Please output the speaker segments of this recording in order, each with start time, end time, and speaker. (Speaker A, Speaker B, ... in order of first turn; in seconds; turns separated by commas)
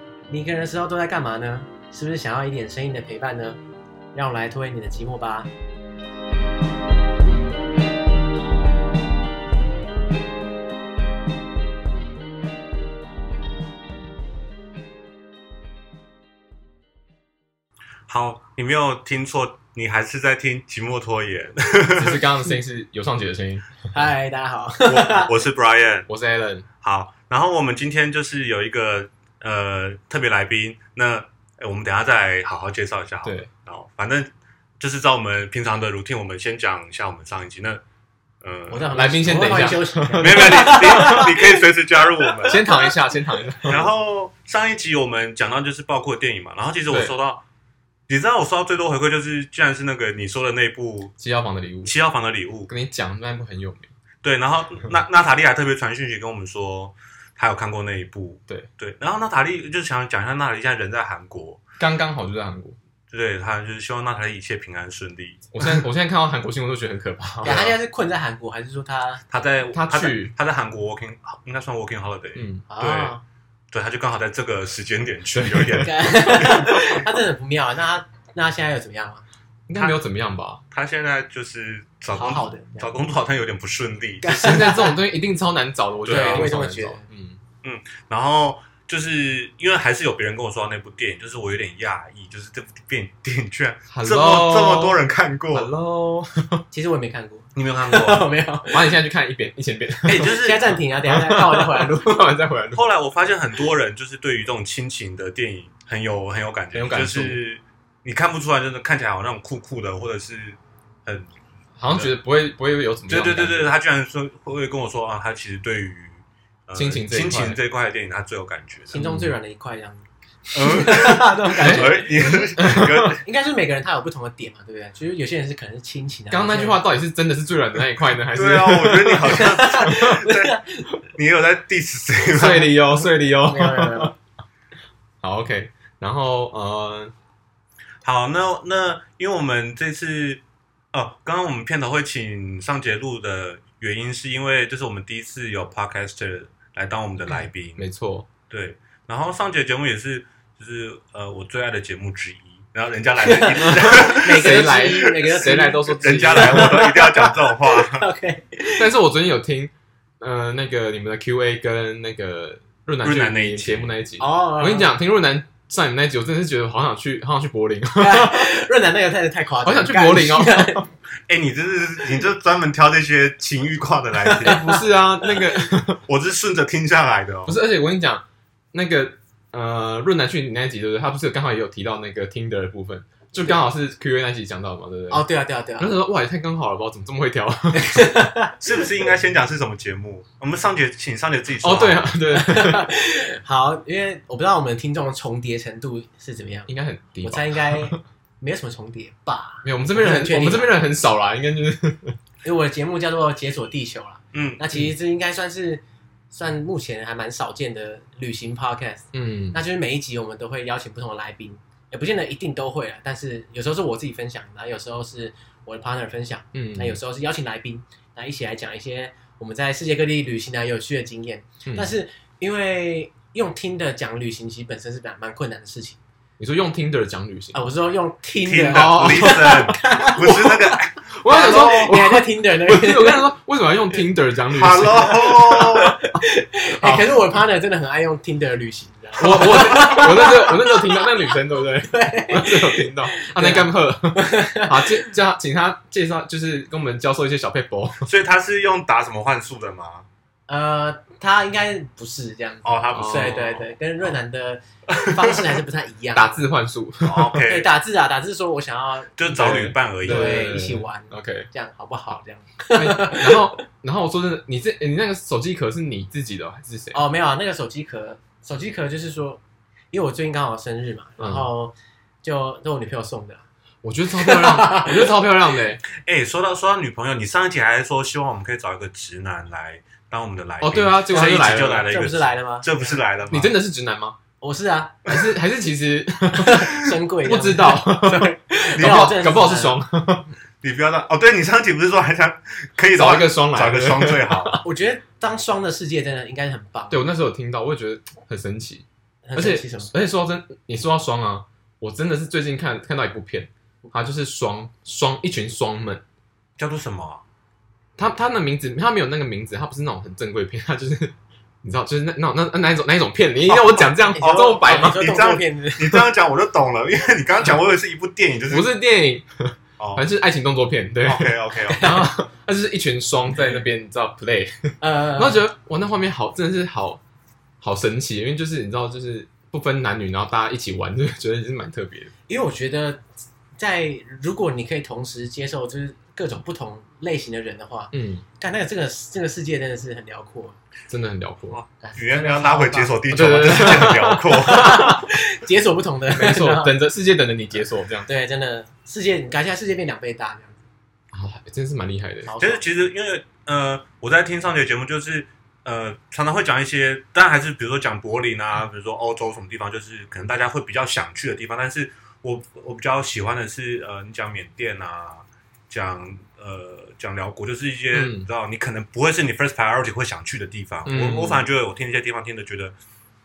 Speaker A: 0.3-3.6, Speaker A: 4.1-5.5, Speaker B: 18.1-22.2, Speaker C: 21.9-23.7, Speaker A: 23.9-25.3, Speaker B: 24.8-26.1, Speaker C: 26.1-26.7, Speaker B: 26.8-37.8, Speaker C: 33.2-33.5, Speaker B: 38.4-39.0, Speaker A: 38.7-41.6, Speaker C: 38.9-41.3, Speaker B: 40.2-42.6, Speaker A: 42.2-42.9, Speaker C: 42.4-43.9, Speaker B: 43.6-47.4, Speaker C: 46.9-47.1, Speaker B: 48.1-51.1, Speaker C: 51.2-51.9, Speaker B: 51.8-52.7, Speaker C: 52.7-53.9, Speaker B: 54.2-61.6, Speaker C: 61.8-62.8, Speaker B: 63.1-65.5, Speaker C: 65.5-67.6, Speaker B: 67.4-67.7, Speaker A: 67.4-69.2, Speaker B: 69.3-73.2, Speaker C: 69.7-70.3, Speaker C: 72.3-72.6, Speaker A: 72.7-73.2, Speaker B: 73.7-76.9, Speaker C: 75.3-75.9, Speaker A: 75.8-79.2, Speaker C: 79.7-80.6, Speaker B: 80.7-84.7, Speaker A: 82.1-82.9, Speaker A: 84.2-85.0, Speaker C: 84.2-87.4, Speaker B: 86.0-86.5, Speaker A: 86.1-87.0, Speaker B: 87.6-95.7, Speaker C: 93.9-95.0, Speaker C: 95.5-96.6, Speaker A: 96.7-98.9, Speaker B: 97.5-98.3, Speaker C: 98.7-100.3, Speaker B: 100.0-100.7, Speaker A: 100.1-102.3, Speaker C: 101.0-102.9, Speaker B: 102.7-111.3, Speaker C: 106.7-107.4, Speaker C: 111.8-113.7, Speaker B: 111.8-112.1, Speaker B: 113.1-119.0, Speaker C: 116.7-117.6, Speaker A: 118.9-126.8, Speaker C: 118.9-119.3, Speaker B: 120.5-123.2, Speaker C: 121.6-123.2, Speaker C: 126.3-130.1, Speaker B: 128.3-130.5, Speaker A: 129.3-130.9, Speaker B: 131.1-132.7, Speaker C: 132.3-134.1, Speaker A: 132.5-134.1, Speaker C: 135.2-137.1, Speaker B: 138.0-140.4, Speaker B: 140.9-147.9, Speaker C: 147.8-148.3, Speaker B: 148.5-158.1, Speaker A: 153.2-158.9, Speaker C: 153.5-156.9, Speaker C: 158.8-168.5, Speaker B: 163.0-163.9, Speaker A: 164.2-164.9, Speaker A: 167.9-170.9, Speaker C: 169.6-170.8, Speaker B: 171.3-174.6, Speaker A: 174.2-175.4, Speaker C: 174.4-176.0, Speaker B: 176.1-177.6, Speaker C: 177.4-185.2, Speaker A: 185.1-185.9, Speaker C: 185.8-188.1, Speaker A: 187.7-188.6, Speaker B: 188.6-192.1, Speaker C: 191.6-192.9, Speaker A: 192.3-196.7, Speaker C: 196.7-198.0, Speaker A: 197.2-200.8, Speaker C: 199.6-202.2, Speaker A: 202.4-226.0, Speaker B: 204.3-204.6, Speaker C: 209.1-209.6, Speaker C: 216.5-217.0, Speaker C: 221.7-221.9, Speaker C: 226.4-227.6, Speaker A: 227.5-230.7, Speaker B: 228.4-231.9, Speaker C: 228.7-229.7, Speaker C: 230.2-235.3, Speaker A: 231.2-233.3, Speaker B: 234.5-236.0, Speaker A: 234.9-241.3, Speaker C: 236.8-237.1, Speaker C: 239.2-248.1, Speaker A: 241.8-245.1, Speaker B: 248.0-250.1, Speaker A: 250.5-256.5, Speaker B: 252.6-253.6, Speaker C: 252.9-253.6, Speaker B: 254.9-255.4, Speaker C: 256.1-257.4, Speaker B: 257.0-257.7, Speaker A: 257.4-263.6, Speaker B: 259.2-260.5, Speaker C: 259.3-261.5, Speaker C: 262.7-267.0, Speaker A: 266.9-269.4, Speaker A: 269.9-273.4, Speaker C: 271.2-271.5, Speaker C: 273.8-275.8, Speaker A: 274.1-275.1, Speaker B: 275.9-283.5, Speaker C: 280.6-281.9, Speaker A: 281.1-283.0, Speaker C: 283.3-284.2, Speaker A: 284.4-285.1, Speaker C: 285.1-286.7, Speaker A: 286.3-289.8, Speaker C: 287.2-290.3, Speaker B: 288.8-289.1, Speaker B: 290.6-294.6, Speaker C: 292.9-294.6, Speaker A: 294.6-297.0, Speaker C: 296.9-298.8, Speaker A: 299.2-299.9, Speaker C: 299.4-306.0, Speaker B: 306.6-307.2, Speaker C: 308.0-315.1, Speaker B: 313.4-318.7, Speaker A: 314.0-316.0, Speaker C: 318.5-327.0, Speaker B: 319.8-320.0, Speaker B: 321.0-321.9, Speaker A: 321.7-322.1, Speaker A: 323.4-323.6, Speaker A: 324.8-325.4, Speaker C: 327.6-332.1, Speaker A: 332.3-333.0, Speaker A: 333.6-340.6, Speaker C: 337.9-338.2, Speaker C: 340.9-341.6, Speaker B: 341.5-345.0, Speaker A: 341.8-346.7, Speaker C: 343.1-345.0, Speaker C: 346.1-348.1, Speaker A: 348.1-350.6, Speaker C: 351.1-352.3, Speaker A: 352.2-352.6, Speaker B: 352.4-372.7, Speaker C: 367.9-368.3, Speaker C: 370.9-371.5